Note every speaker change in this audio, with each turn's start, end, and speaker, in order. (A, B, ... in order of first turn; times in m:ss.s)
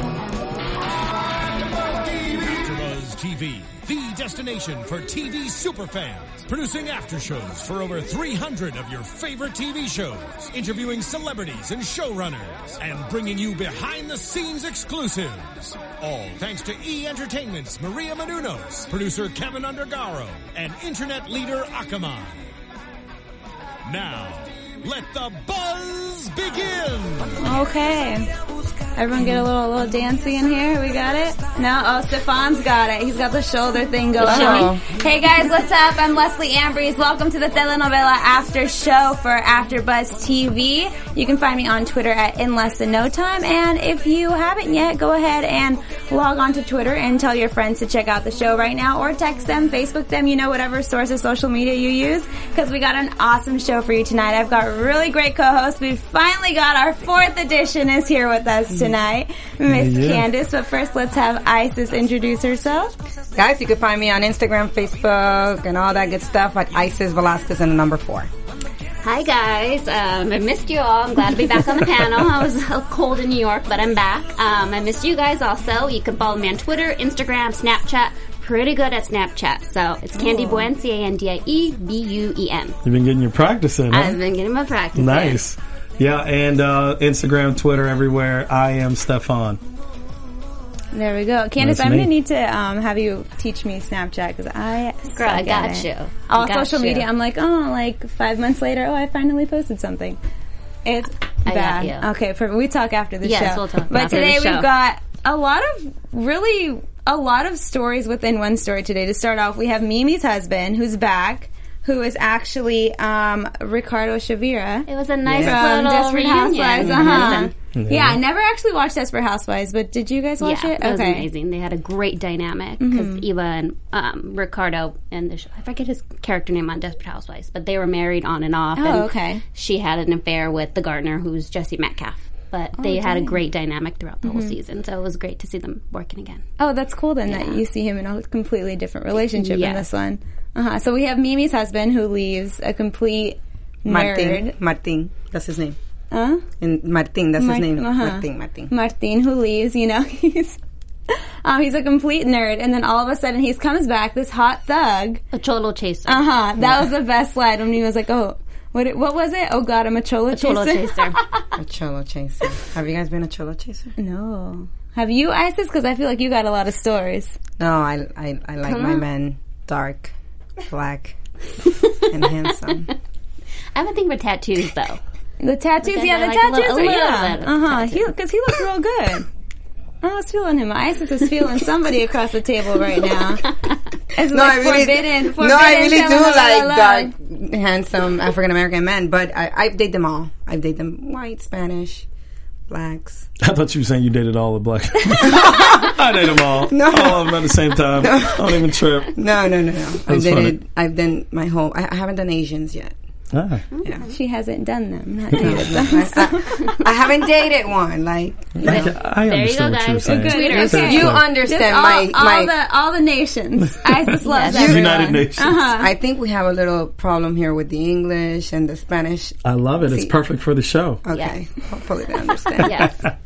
0:01.6-0:22.5 A
0:23.8-0:27.4 A
0:27.4-0:28.3 B
0:29.0-1:02.9 B
0:34.2-0:34.7 C
0:34.2-0:34.8 D
0:59.7-1:00.3 E
1:03.4-1:08.3 D
1:09.0-1:22.8 C
1:20.2-1:20.7 D
1:22.8-1:24.2 E
1:23.9-1:25.4 C
1:25.0-1:29.6 E
1:30.9-1:40.2 B
1:31.6-1:32.1 E
1:35.2-1:37.1 C
1:40.8-2:01.3 B
1:41.5-1:42.1 C
1:43.2-1:44.7 C
1:54.9-1:57.5 C
1:55.2-1:55.7 D
1:56.8-1:57.5 D
1:57.8-1:58.2 E
2:00.4-2:16.4 C
2:02.8-2:03.2 B
2:08.8-2:09.4 B
2:12.8-2:13.4 B
2:14.3-2:14.5 B
2:16.6-2:24.6 B
2:17.3-2:17.6 C
2:19.4-2:19.9 C
2:23.9-2:25.8 D
2:26.1-2:26.4 B
2:26.6-2:28.7 D
2:27.4-2:30.6 B
2:31.1-2:35.2 B
2:35.3-2:36.3 C
2:36.1-2:41.2 B
2:40.3-2:41.2 C
2:41.6-2:43.9 D
2:44.0-2:47.4 B
2:47.6-2:50.1 D
2:48.6-2:49.0 C
2:50.7-2:51.2 D
2:52.0-2:52.9 D
2:53.8-2:55.0 C
2:55.4-2:59.3 B
2:55.8-2:58.1 C
3:00.0-3:03.5 B
3:04.1-3:07.1 B
3:04.3-3:12.1 D
3:12.7-3:13.3 D
3:13.4-3:19.1 E
3:15.2-3:15.9 D
3:16.6-3:22.9 D
3:20.1-3:20.6 E
3:23.3-3:23.6 E
3:23.7-3:24.0 C
3:24.0-3:26.9 B
3:25.4-3:25.6 E
3:25.4-3:28.9 D
3:28.6-3:31.3 E
3:28.6-3:31.2 C
3:30.1-3:35.9 B
3:30.6-3:32.5 D
3:34.3-3:34.8 C
3:34.5-3:40.2 D
3:34.5-3:35.6 E
3:39.4-3:41.0 E
3:41.0-3:43.0 D
3:41.1-3:41.4 C
3:42.6-3:43.0 C
3:42.6-3:43.1 E